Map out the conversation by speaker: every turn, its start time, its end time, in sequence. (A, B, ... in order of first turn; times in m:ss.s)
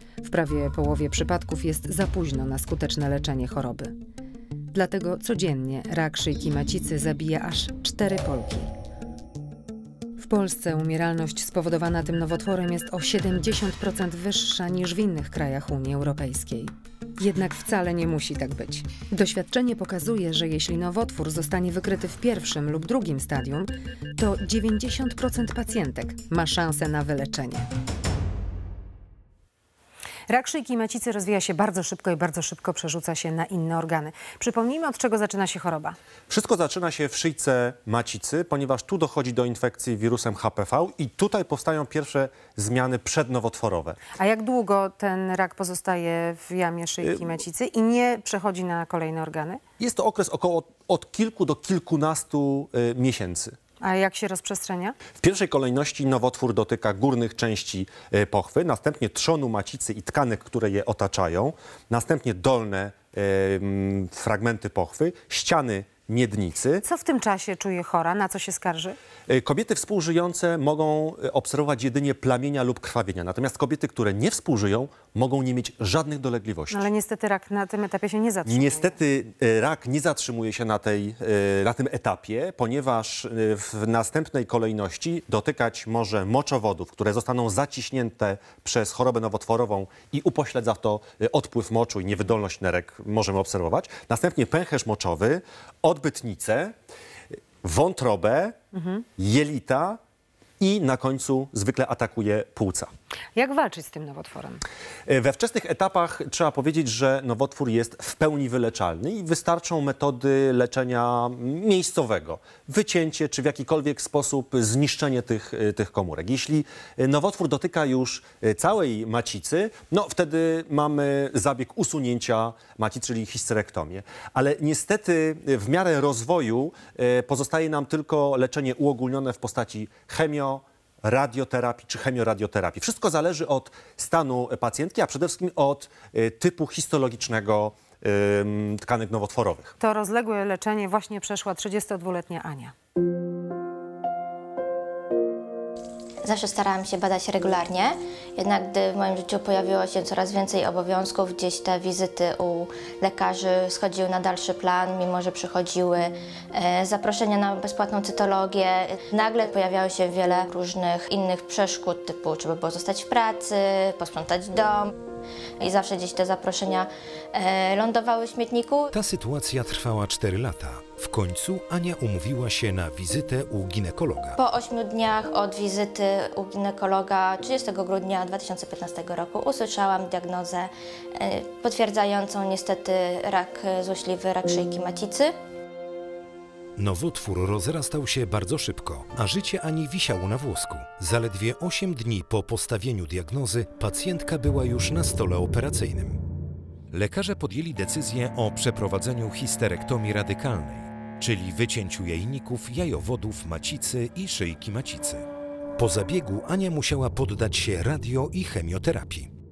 0:00.2-0:03.9 A
0:04.7-0:08.7 A
0:10.2-0:27.7 A
0:30.3-0:36.0 A
0:36.3-0:44.0 B
0:44.2-0:49.6 A
0:47.0-0:47.4 B
0:49.8-0:53.5 B
0:53.8-0:55.0 A
0:55.2-1:06.8 B
1:06.8-1:09.0 A
1:09.3-1:16.9 B
1:16.7-1:19.0 A
1:18.4-1:36.7 B
1:37.6-1:38.6 B
1:38.7-1:39.0 A
1:39.2-1:40.0 B
1:40.6-1:42.9 B
1:43.4-1:44.6 A
1:45.1-2:19.7 B
2:19.8-2:22.7 A
2:26.2-2:44.9 C
2:45.6-2:48.9 C
2:48.9-2:54.4 D
2:54.4-3:05.3 C
3:06.8-3:16.2 D
3:16.9-3:25.2 D
3:25.8-3:29.3 D